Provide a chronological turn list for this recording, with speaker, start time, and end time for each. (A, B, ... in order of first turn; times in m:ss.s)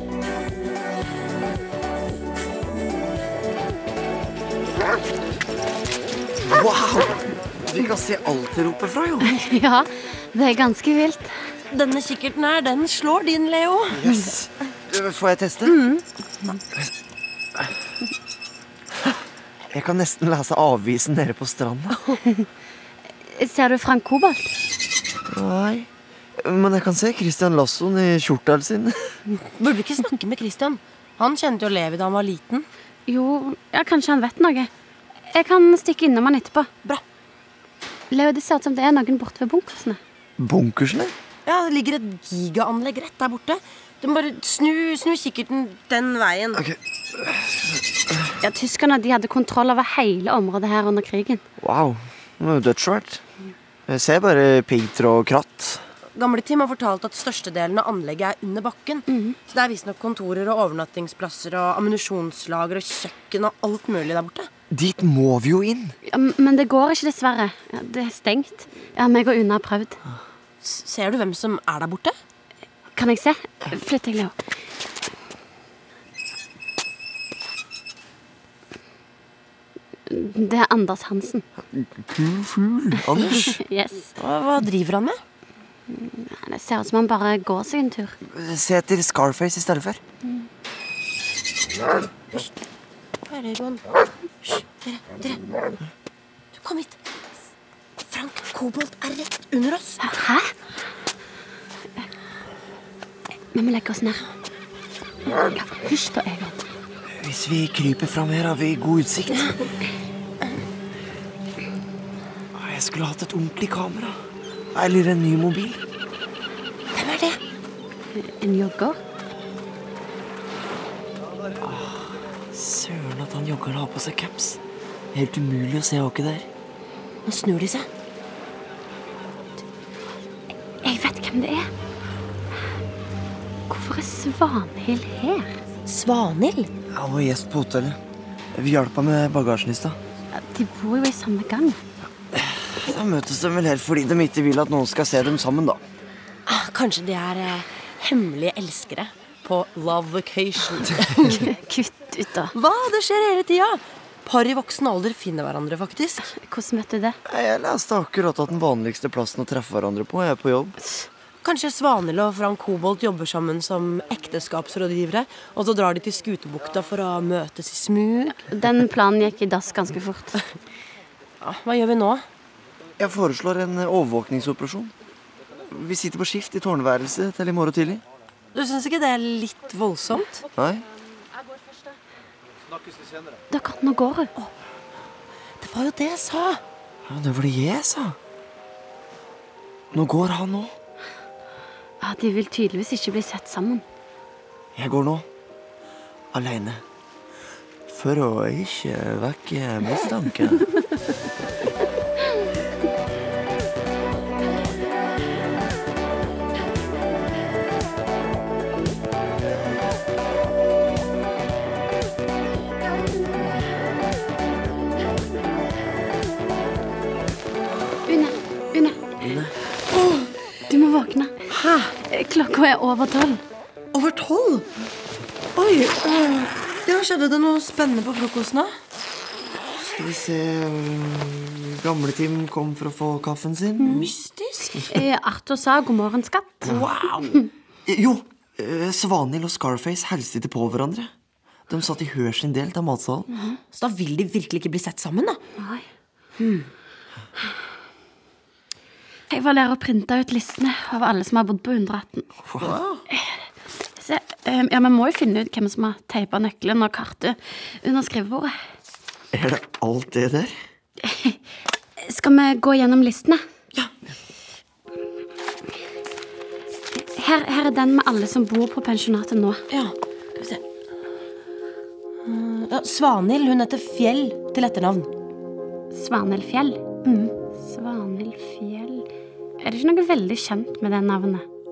0:06.4-0:09.4 A
0:09.2-0:11.3 B
0:11.7-0:14.0 C
0:13.9-0:15.8 A
0:15.7-0:16.0 C
0:19.7-0:22.0 A
0:23.3-0:24.6 B
0:25.3-0:29.2 A
0:29.6-0:32.7 C
0:33.1-0:34.7 B
0:35.3-0:36.7 B
0:38.1-0:40.0 B
0:40.4-0:41.1 A
0:41.5-0:46.6 C
0:46.6-0:48.3 A
0:48.4-0:51.4 B
0:51.6-0:53.2 A
0:53.9-0:55.8 A
0:56.2-1:04.5 C
0:59.1-0:59.4 B
1:04.7-1:06.0 A
1:06.1-1:10.0 B
1:10.6-1:12.2 C
1:13.0-1:14.3 B
1:20.1-1:21.4 B
1:21.6-1:23.6 A
1:23.5-1:24.1 B
1:24.2-1:25.2 C
1:25.9-1:28.2 B
1:28.2-1:30.0 A
1:33.3-1:33.8 C
1:34.4-1:35.4 C
1:36.5-1:37.0 C
1:38.1-1:40.2 C
1:40.0-1:40.5 B
1:43.5-1:44.3 B
1:45.3-1:46.6 B
1:47.1-1:49.6 A
1:52.5-1:54.2 A
1:54.7-1:55.8 A
1:56.9-1:57.4 C
1:58.1-1:59.0 B
2:01.6-2:04.6 A
2:05.1-2:06.5 A
2:07.2-2:07.9 C
2:10.8-2:11.7 B
2:13.7-2:15.5 B
2:15.9-2:16.7 C
2:16.9-2:18.0 A
2:18.5-2:20.0 A
2:20.3-2:21.8 B
2:22.3-2:25.8 A
2:26.5-2:31.5 C
2:31.5-2:32.5 B
2:32.5-2:36.3 C
2:36.3-2:37.2 B
2:37.3-2:40.8 A
2:41.4-2:48.5 C
2:48.5-2:50.4 B
2:51.4-2:52.2 C
2:53.0-2:54.9 A
2:55.7-2:58.0 A
2:58.5-3:00.4 C
3:00.5-3:00.8 A
3:03.5-3:04.3 B
3:05.6-3:06.6 C
3:07.0-3:08.2 A
3:09.9-3:10.7 A
3:12.0-3:13.8 B
3:14.8-3:15.3 A
3:16.3-3:16.8 A
3:17.9-3:20.7 A
3:38.1-3:39.4 B
3:39.2-3:39.5 A
3:39.9-3:40.3 C
3:40.7-3:41.3 B
3:41.5-3:42.0 C
3:42.1-3:43.4 B
3:43.9-3:44.7 C
3:45.6-3:48.7 C
3:49.9-3:54.1 A
3:53.9-3:54.9 C
3:54.9-3:56.8 B
3:56.6-3:57.4 C
3:57.9-4:01.1 A
4:01.7-4:03.3 A
4:03.7-4:05.4 C
4:05.6-4:05.8 B
4:06.4-4:06.7 C
4:09.3-4:12.3 B
4:12.5-4:13.0 A
4:13.1-4:13.4 B
4:14.0-4:18.5 B
4:19.3-4:20.5 A
4:21.0-4:21.4 B
4:22.0-4:23.4 B
4:27.0-4:29.6 B
4:29.7-4:30.6 C
4:32.2-4:35.1 C
4:35.9-4:39.1 B
4:39.6-4:41.4 B